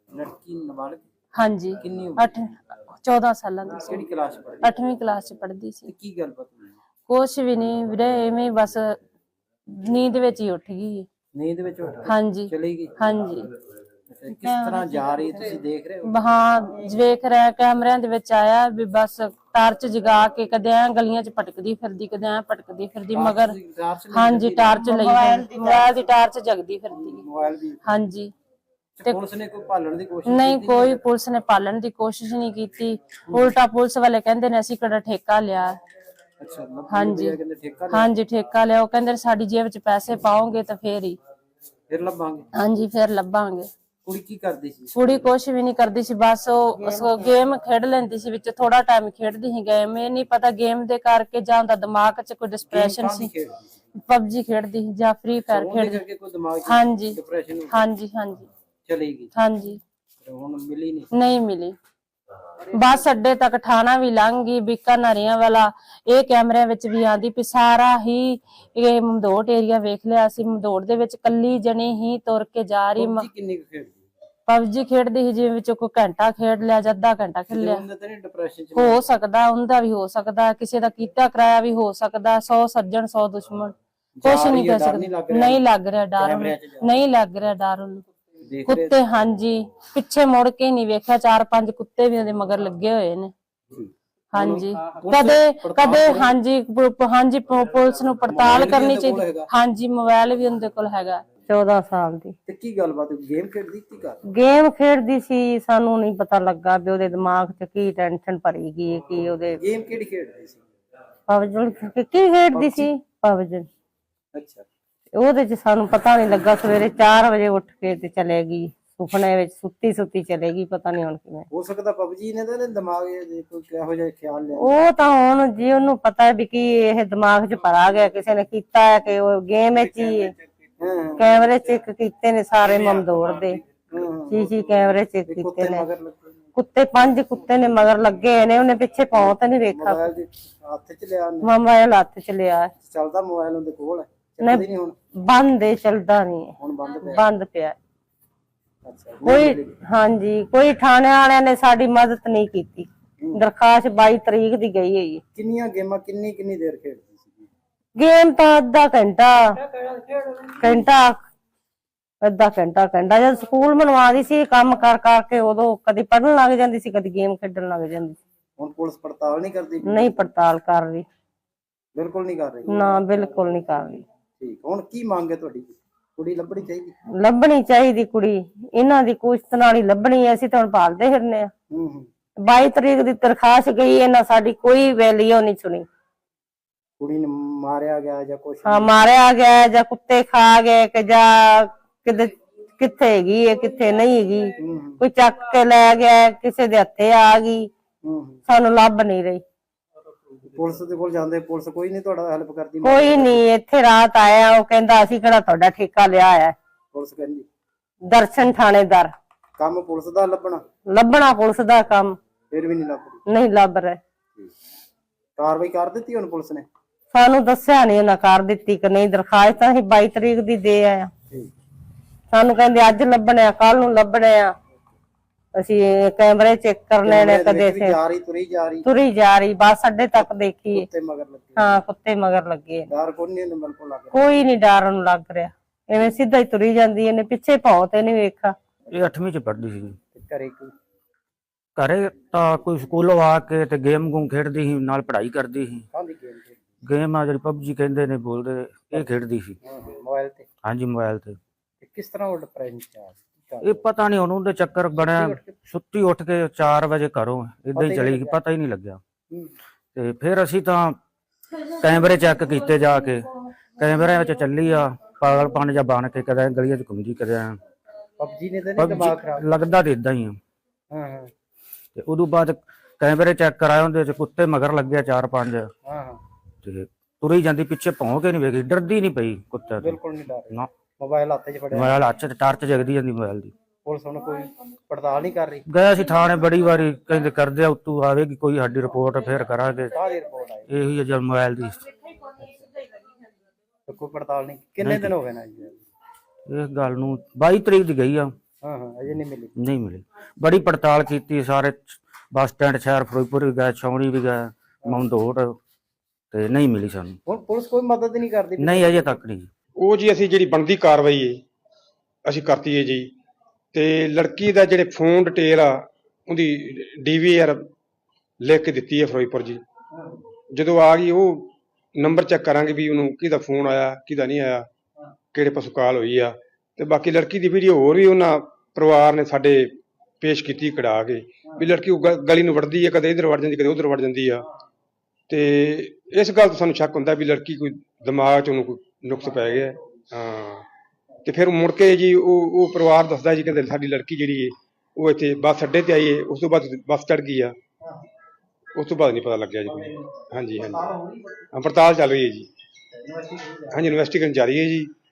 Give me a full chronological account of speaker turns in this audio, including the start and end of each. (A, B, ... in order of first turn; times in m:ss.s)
0:00.1-0:01.0 A
0:01.3-0:04.0 B
0:01.8-0:02.3 A
0:03.8-0:04.8 A
0:04.6-0:05.9 B
0:05.8-0:06.7 A
0:07.1-0:09.0 B
0:09.7-0:11.0 B
0:11.3-0:12.9 A
0:12.0-0:13.5 B
0:14.1-0:16.3 A
0:16.0-0:23.6 B
0:23.1-0:25.9 A
0:24.1-0:27.2 B
0:24.9-0:25.3 C
0:27.0-0:27.8 A
0:27.8-0:28.3 B
0:29.0-0:31.0 A
0:30.3-0:35.8 B
0:36.4-0:38.1 A
0:36.9-0:37.4 B
0:37.9-0:41.2 B
0:41.9-0:42.4 A
0:42.5-0:43.7 B
0:44.0-0:44.9 A
0:44.9-0:53.3 B
0:52.7-0:53.7 A
0:53.9-0:56.0 B
0:55.5-0:57.8 A
0:56.6-0:57.2 B
0:57.7-0:58.5 B
0:58.8-0:59.3 A
0:59.3-0:59.8 B
1:00.2-1:01.1 A
1:01.1-1:01.7 B
1:02.6-1:03.2 A
1:02.7-1:13.2 B
1:13.0-1:14.0 A
1:14.5-1:17.8 B
1:17.5-1:19.0 A
1:18.7-1:28.0 B
1:24.2-1:25.6 A
1:26.2-1:27.0 A
1:28.4-1:29.0 A
1:28.6-1:33.3 B
1:33.7-1:36.3 A
1:34.3-1:41.2 B
1:38.3-1:39.5 A
1:41.5-1:42.3 C
1:42.4-1:44.2 A
1:44.3-1:49.6 C
1:49.6-1:50.6 A
1:51.3-1:53.7 C
1:52.5-1:52.9 A
1:54.3-1:54.6 A
1:55.2-2:01.4 C
2:01.5-2:04.8 A
2:04.6-2:10.3 C
2:10.8-2:11.4 A
2:11.2-2:13.6 C
2:13.7-2:16.4 A
2:14.3-2:15.8 C
2:16.5-2:20.0 C
2:19.1-2:21.5 A
2:21.4-2:22.7 C
2:22.8-2:25.0 A
2:25.3-2:26.5 C
2:26.6-2:27.2 A
2:27.1-2:27.8 C
2:28.8-2:29.8 A
2:29.2-2:35.2 C
2:33.2-2:33.4 A
2:35.3-2:37.5 A
2:38.0-2:39.4 C
2:40.4-2:40.9 A
2:40.6-2:41.2 C
2:42.2-2:48.2 C
2:48.6-2:50.2 A
2:49.8-2:51.0 C
2:51.9-2:53.0 A
2:52.7-2:54.0 C
2:54.4-2:56.9 A
2:57.2-3:01.5 C
3:01.7-3:02.1 A
3:02.4-3:05.8 C
3:07.0-3:08.9 A
3:08.6-3:17.7 C
3:14.6-3:15.0 A
3:18.0-3:18.4 A
3:18.5-3:19.4 C
3:20.5-3:23.4 A
3:22.8-3:26.5 C
3:26.9-3:27.4 A
3:28.1-3:29.1 C
3:29.6-3:30.6 A
3:30.9-3:32.1 C
3:32.5-3:33.2 A
3:33.3-3:34.0 C
3:35.4-3:36.7 A
3:37.1-3:41.1 C
3:42.3-3:44.5 C
3:45.6-3:48.0 C
3:47.0-3:48.9 A
3:48.8-3:50.9 C
3:50.2-3:51.8 A
3:51.6-3:52.9 C
3:52.9-3:54.4 A
3:54.1-3:58.5 C
3:58.9-4:00.0 D
4:00.1-4:00.7 A
4:01.8-4:05.8 D
4:05.9-4:06.6 A
4:06.8-4:09.5 D
4:09.6-4:10.5 A
4:10.6-4:11.4 D
4:11.8-4:13.8 A
4:13.6-4:19.0 D
4:14.9-4:15.5 A
4:17.7-4:18.4 A
4:19.9-4:21.0 D
4:21.8-4:27.6 D
4:28.2-4:29.5 A
4:28.8-4:30.4 D
4:30.9-4:31.3 A
4:32.0-4:35.7 D
4:35.8-4:36.2 A
4:36.6-4:40.0 D
4:39.8-4:42.0 A
4:41.7-4:43.5 D
4:43.8-4:45.6 A
4:45.7-4:49.9 D
4:49.9-4:50.7 A
4:50.7-4:51.8 D
4:53.9-4:55.8 A
4:54.8-4:55.1 D
4:56.5-4:58.3 D
4:58.6-4:59.5 A
4:59.6-5:05.5 D
5:06.3-5:07.2 D
5:07.3-5:09.2 A
5:08.6-5:09.5 D
5:09.8-5:11.4 E
5:12.2-5:13.1 E
5:13.7-5:17.7 E
5:18.4-5:19.6 E
5:20.5-5:24.7 E
5:25.3-5:34.4 E
5:35.3-5:40.6 E
5:39.2-5:39.7 A
5:41.2-5:47.5 E
5:48.8-5:50.9 E
5:49.6-5:51.4 A
5:51.5-5:52.5 E
5:52.9-5:53.9 A
5:53.7-5:54.9 E